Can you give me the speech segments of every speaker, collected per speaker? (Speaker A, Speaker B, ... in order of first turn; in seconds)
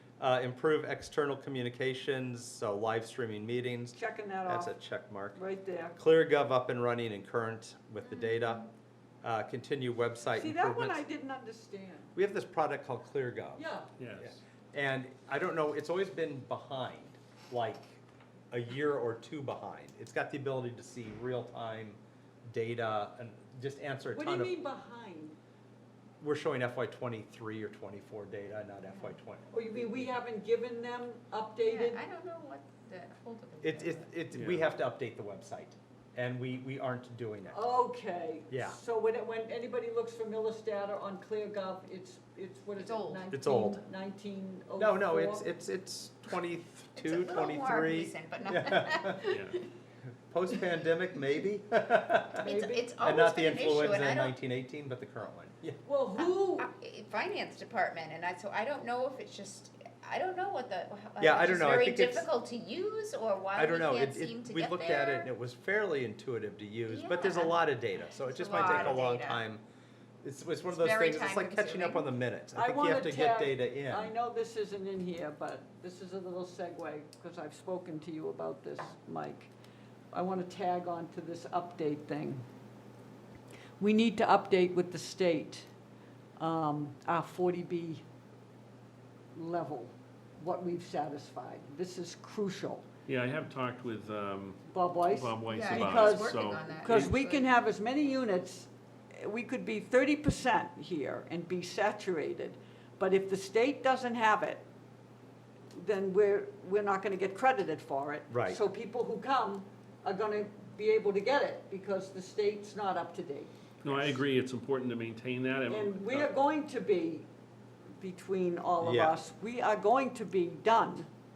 Speaker A: 0.2-5.4, 6.0-8.7, 9.2-11.0, 12.1-13.7, 14.2-24.6, 26.2-30.1, 33.6-37.6, 38.5-38.8, 43.3-43.8, 44.8-49.2, 50.3-55.8, 61.2-62.3, 63.5-69.6, 70.2-74.1, 108.3-108.6, 113.8-114.1, 118.8-119.2
Speaker B: 3.9-4.7, 5.3-6.0, 10.3-12.1, 13.5-13.9, 24.1-25.4, 29.5-32.0, 37.5-45.5, 52.4-52.9, 55.8-56.7, 72.5-79.5, 80.1-82.4, 83.8-85.7, 86.4-88.0, 89.3-92.9, 94.7-104.6, 105.7-113.5, 115.7-117.3, 118.0-121.1
Speaker C: 8.1-8.4, 31.6-34.1, 42.8-43.3, 47.0-49.7, 52.4-54.4, 56.2-65.3, 66.9-69.4, 70.7-72.1, 95.5-97.5
Speaker D: 14.0-14.3, 34.3-34.6, 93.1-94.6, 95.1-97.1, 113.8-116.3